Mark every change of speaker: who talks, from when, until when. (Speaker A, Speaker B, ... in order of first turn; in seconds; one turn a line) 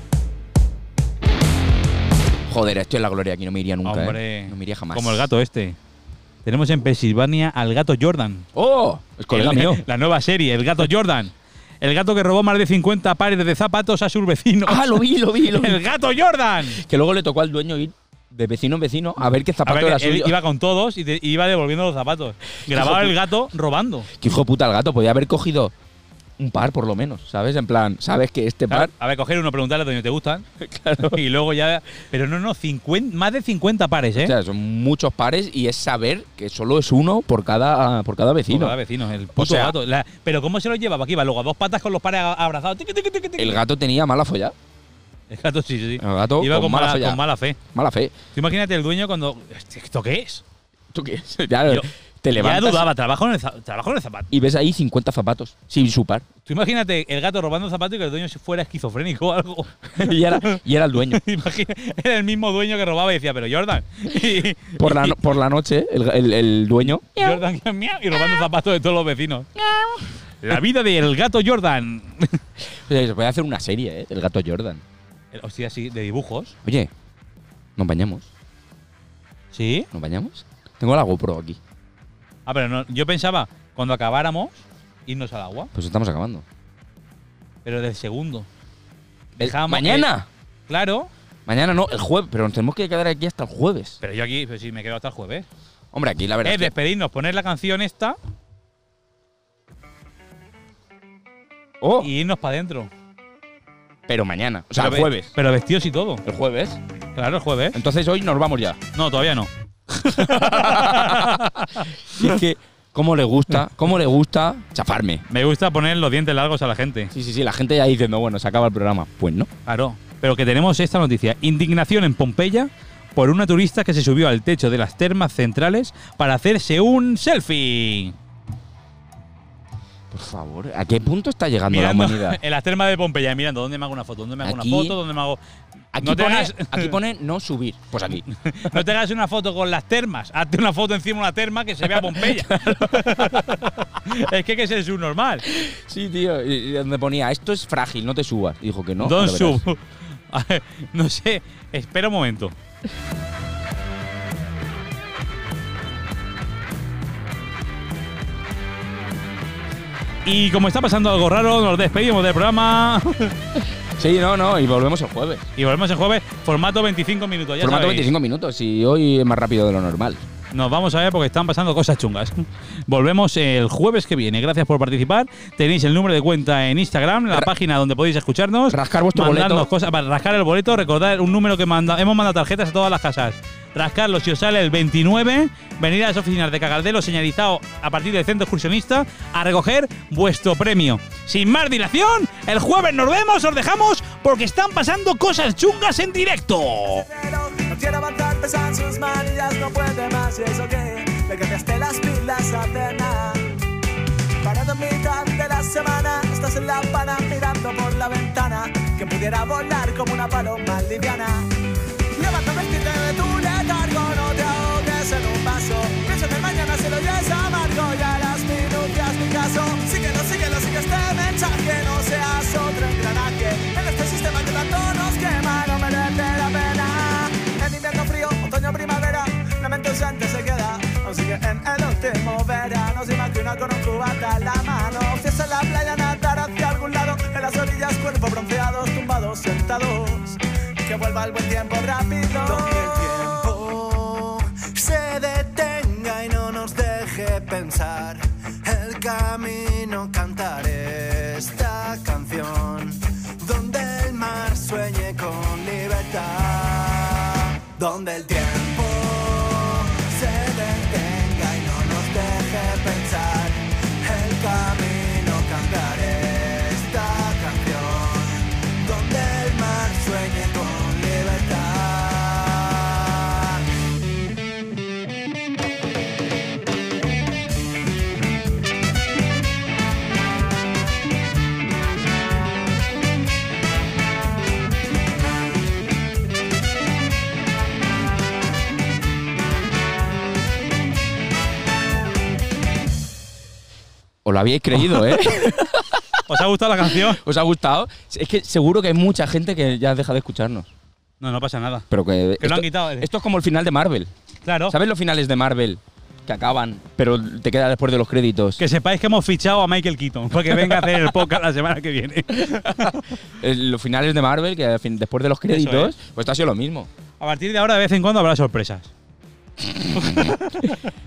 Speaker A: 2.5-5.3
Speaker B: 3.8-5.8
Speaker B: 6.4-8.5
Speaker A: 8.5-9.8
Speaker B: 9.3-16.8
Speaker A: 14.6-15.8
Speaker A: 16.7-20.4
Speaker B: 19.6-24.1
Speaker A: 22.7-23.1
Speaker A: 24.2-25.7
Speaker A: 26.4-28.9
Speaker B: 28.7-30.4
Speaker A: 30.6-31.2
Speaker B: 31.0-34.3
Speaker A: 34.2-38.8
Speaker B: 38.5-43.6
Speaker A: 39.4-39.8
Speaker A: 43.4-44.5
Speaker B: 45.3-47.6
Speaker A: 46.0-48.1
Speaker B: 48.3-50.4
Speaker A: 50.9-52.9
Speaker B: 51.6-54.3
Speaker A: 54.3-56.2
Speaker B: 56.5-60.6
Speaker A: 59.9-61.2
Speaker B: 61.1-65.2
Speaker A: 64.8-67.4
Speaker B: 67.1-72.4
Speaker A: 72.8-74.8
Speaker B: 75.3-76.5
Speaker A: 76.6-76.9
Speaker A: 77.8-78.2
Speaker B: 79.5-79.9
Speaker A: 79.9-81.6
Speaker B: 82.5-85.7
Speaker A: 85.7-86.4
Speaker B: 87.6-88.5
Speaker A: 89.3-90.3
Speaker B: 89.4-90.1
Speaker B: 90.7-91.1
Speaker A: 91.5-94.0
Speaker B: 94.0-95.5
Speaker A: 95.9-96.7
Speaker B: 96.4-98.2
Speaker A: 101.8-102.1
Speaker B: 102.0-102.9
Speaker A: 104.1-105.3
Speaker B: 104.8-106.2
Speaker A: 106.2-106.8
Speaker B: 107.2-107.8
Speaker A: 107.7-108.8
Speaker B: 108.9-112.3
Speaker A: 110.1-115.2
Speaker B: 115.3-117.1
Speaker A: 117.1-119.5
Speaker B: 119.7-128.1
Speaker A: 130.1-132.4
Speaker B: 131.7-135.4
Speaker A: 134.4-135.0
Speaker A: 135.9-138.8
Speaker B: 136.0-137.0
Speaker B: 138.1-145.4
Speaker A: 141.9-143.4
Speaker A: 145.5-149.6
Speaker B: 149.0-152.5
Speaker B: 160.2-163.3
Speaker A: 163.9-165.4
Speaker B: 165.6-168.1
Speaker A: 167.6-170.2
Speaker B: 170.5-197.1
Speaker A: 178.7-179.7
Speaker C: 197.0-203.5
Speaker C: 204.4-211.5
Speaker C: 212.1-243.5
Speaker D: 242.4-273.6
Speaker A: 294.2-296.2
Speaker B: 294.8-295.3
Speaker B: 296.3-297.2
Speaker A: 296.8-300.7
Speaker B: 301.2-301.9
Speaker A: 301.9-304.1
Speaker B: 302.4-303.1
Speaker B: 304.4-304.8
Speaker A: 304.7-308.6
Speaker B: 308.6-313.1
Speaker A: 310.5-311.0
Speaker A: 312.5-316.9
Speaker B: 315.5-315.9
Speaker B: 317.2-318.9
Speaker A: 319.6-320.6
Speaker B: 319.9-320.8